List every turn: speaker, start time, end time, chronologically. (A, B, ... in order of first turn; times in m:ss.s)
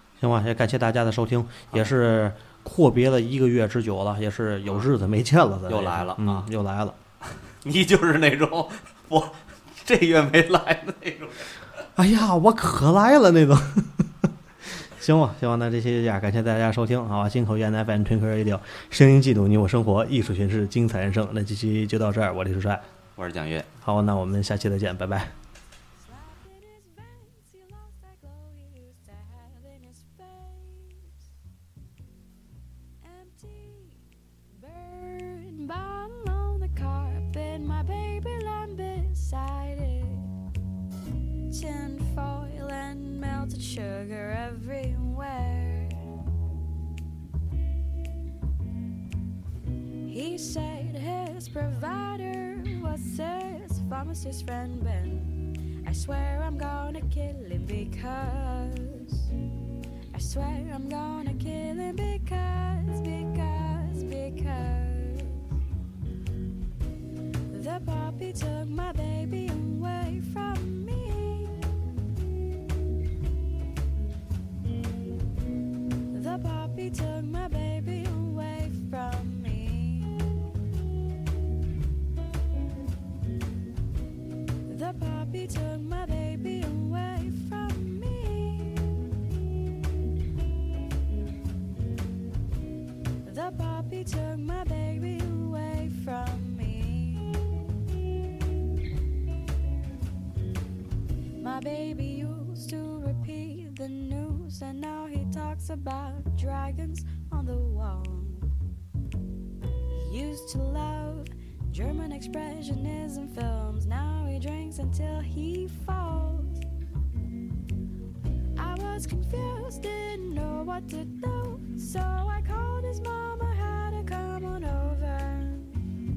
0:00.2-0:07.0 A
0:05.7-0:06.5 B
0:07.2-0:11.6 B
0:12.0-0:14.1 A
0:14.8-0:22.8 A
0:23.2-0:23.7 B
0:23.8-0:25.3 A
0:26.0-0:31.1 C
0:33.0-0:40.3 C
0:41.5-0:46.0 C
0:50.0-0:59.3 C
1:00.1-1:05.4 C
1:07.5-1:11.6 C
1:16.1-1:20.3 C
1:24.7-1:28.9 C
1:33.2-1:37.4 C
1:41.4-1:48.5 C
1:49.9-1:56.6 C
1:58.6-2:05.8 C